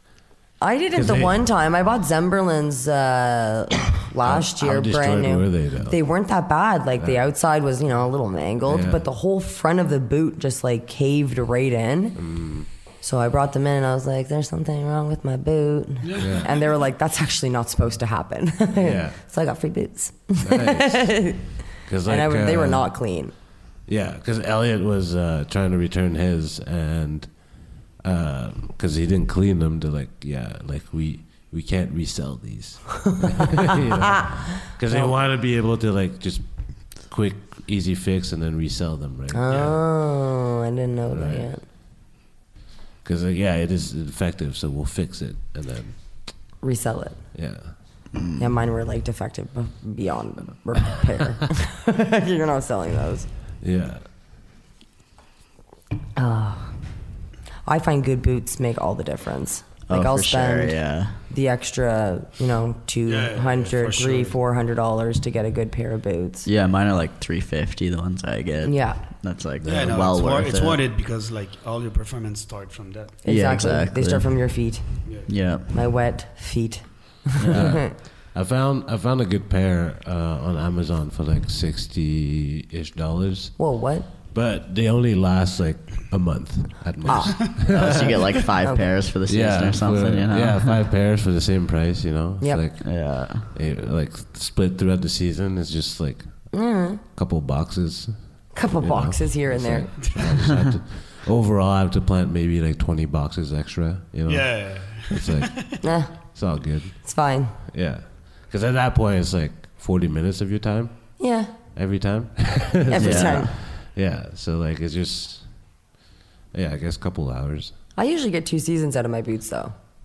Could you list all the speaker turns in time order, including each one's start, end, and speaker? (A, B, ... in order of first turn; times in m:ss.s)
0:00.6-0:12.3 A
0:00.9-0:01.4 B
0:04.2-0:06.0 B
0:08.7-0:09.1 B
0:12.1-0:12.7 B
0:13.0-0:23.3 A
0:16.0-0:16.4 C
0:16.2-0:16.5 B
0:18.8-0:19.2 B
0:20.4-0:22.9 B
0:23.8-0:39.9 B
0:34.9-0:35.1 A
0:39.3-0:41.6 A
0:41.1-0:41.5 B
0:43.0-0:46.4 B
0:46.6-0:47.3 A
0:47.3-0:47.7 B
0:48.2-0:48.5 D
0:48.4-0:53.3 A
0:53.6-0:54.0 B
0:56.2-0:56.8 A
0:57.6-1:06.5 A
0:59.9-1:01.2 D
1:03.0-1:04.4 C
1:06.4-1:10.8 D
1:08.6-1:09.0 A
1:09.6-1:13.2 C
1:09.6-1:09.9 B
1:13.2-1:17.8 A
1:13.2-1:15.9 D
1:15.0-1:15.3 C
1:17.4-1:17.8 D
1:17.5-1:23.7 B
1:23.6-1:24.1 A
1:24.2-1:28.3 B
1:27.0-1:27.4 A
1:27.7-1:30.8 D
1:28.6-1:28.9 A
1:29.2-1:51.2 B
1:32.4-1:32.7 A
1:32.8-1:33.5 D
1:36.5-1:37.0 A
1:38.5-1:40.2 A
1:44.3-1:45.7 C
1:45.8-1:46.1 A
1:47.0-1:47.5 A
1:51.2-1:51.5 A
1:51.7-1:55.8 B
1:52.8-1:53.5 A
1:53.0-1:53.6 D
1:56.5-1:57.7 B
1:58.0-1:59.7 A